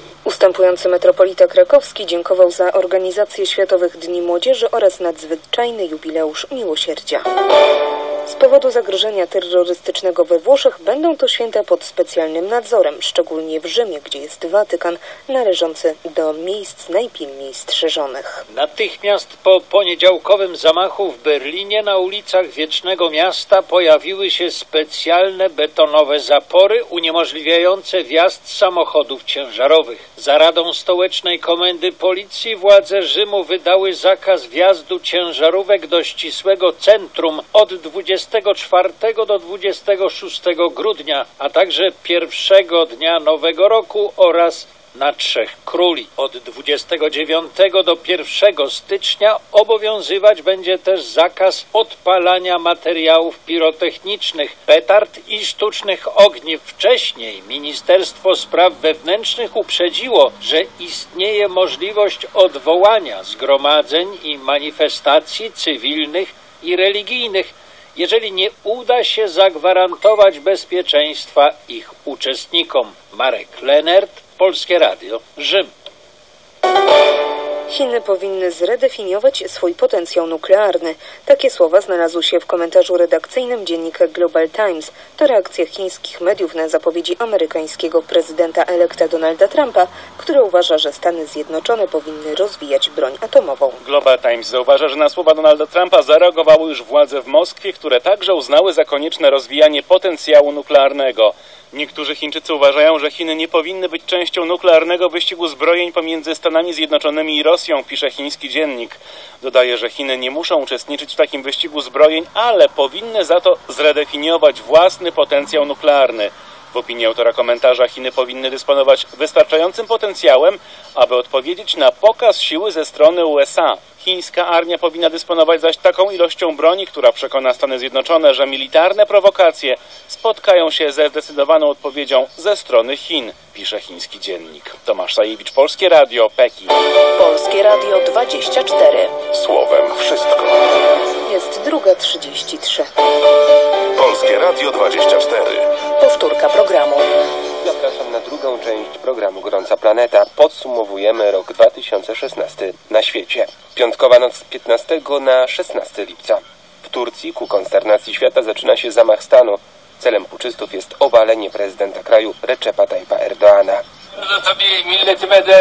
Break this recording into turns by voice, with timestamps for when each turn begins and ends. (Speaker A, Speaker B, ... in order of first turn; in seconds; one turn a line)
Speaker A: 0.2-7.3
Speaker A: 8.3-18.4
Speaker B: 18.5-75.7
Speaker A: 77.7-93.8
Speaker C: 93.8-136.7
Speaker D: 137.2-139.2
Speaker E: 139.3-140.6
Speaker A: 141.2-142.9
Speaker E: 144.0-145.7
Speaker D: 146.0-147.1
Speaker F: 147.6-163.8